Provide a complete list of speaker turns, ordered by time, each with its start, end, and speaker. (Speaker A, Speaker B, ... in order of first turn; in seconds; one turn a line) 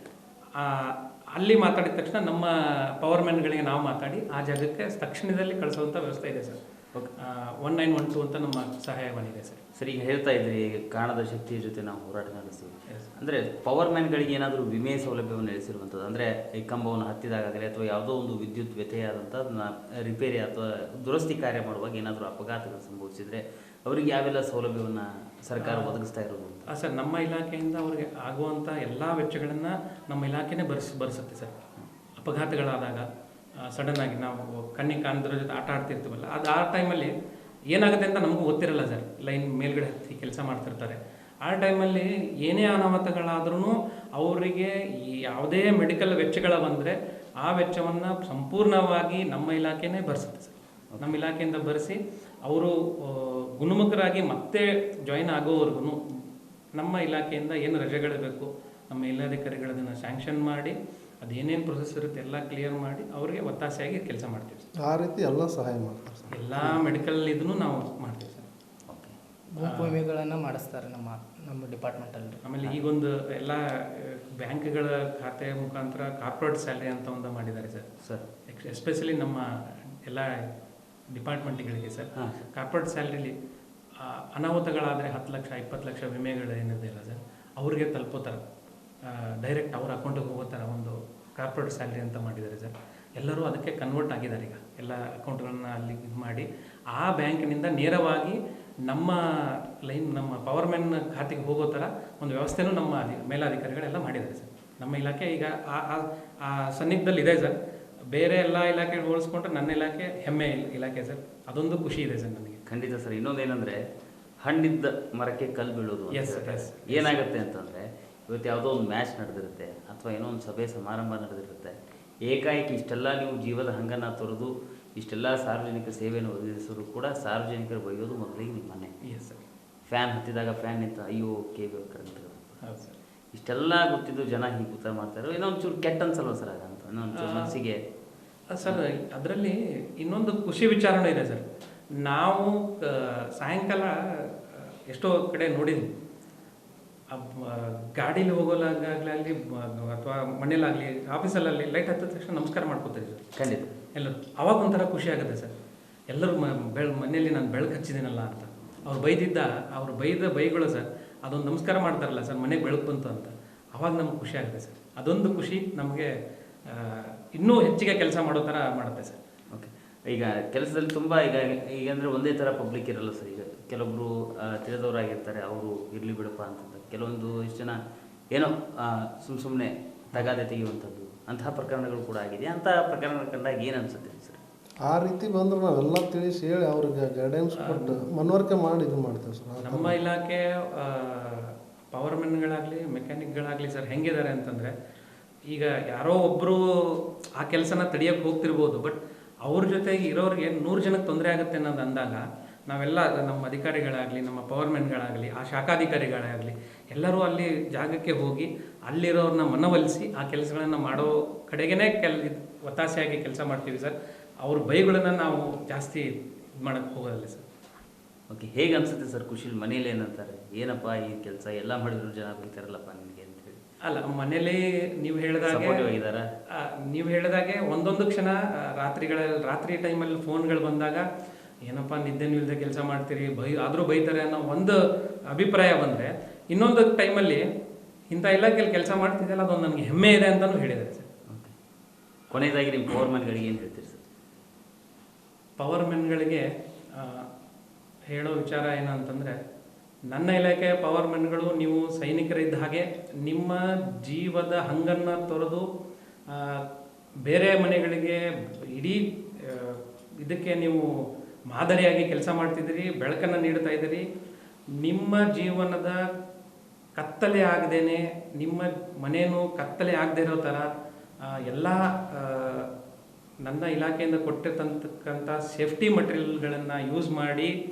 Speaker A: 0.6-6.6
Speaker A: 7.2-9.6
Speaker B: 9.8-26.7
Speaker A: 25.6-26.0
Speaker A: 26.7-31.6
Speaker A: 32.2-33.1
Speaker A: 33.7-37.1
Speaker A: 37.7-56.0
Speaker B: 50.9-51.2
Speaker A: 56.8-64.7
Speaker C: 64.8-66.8
Speaker A: 66.3-68.5
Speaker B: 68.9-69.2
Speaker D: 69.5-72.4
Speaker A: 69.6-70.0
Speaker A: 72.4-77.9
Speaker A: 78.5-80.5
Speaker A: 81.1-83.3
Speaker B: 82.2-82.5
Speaker A: 84.0-88.4
Speaker A: 89.0-107.5
Speaker A: 108.1-112.6
Speaker B: 112.7-113.8
Speaker B: 114.4-128.9
Speaker A: 116.1-117.2
Speaker A: 129.1-129.4
Speaker B: 129.9-132.6
Speaker A: 132.6-133.0
Speaker B: 133.3-137.8
Speaker A: 137.1-137.6
Speaker A: 138.6-141.4
Speaker A: 142.0-145.9
Speaker A: 147.1-153.3
Speaker B: 153.4-153.8
Speaker A: 153.9-155.5
Speaker A: 156.1-166.1
Speaker A: 166.7-169.2
Speaker B: 169.5-177.8
Speaker B: 178.3-184.4
Speaker C: 184.9-190.0
Speaker A: 187.6-188.0
Speaker A: 189.6-194.7
Speaker A: 195.5-216.1
Speaker A: 216.6-217.4
Speaker B: 218.3-223.6
Speaker A: 223.9-225.9
Speaker B: 225.5-226.3
Speaker A: 226.9-231.0
Speaker A: 231.7-234.8
Speaker A: 235.3-237.4
Speaker A: 238.1-241.1
Speaker B: 241.3-241.6
Speaker B: 242.3-244.1
Speaker A: 245.6-247.3
Speaker A: 248.1-249.4
Speaker A: 250.1-255.7
Speaker A: 256.3-256.6
Speaker A: 257.3-260.9
Speaker A: 261.5-264.1
Speaker A: 264.8-266.0
Speaker A: 267.0-270.7
Speaker A: 271.3-272.7
Speaker A: 273.4-277.5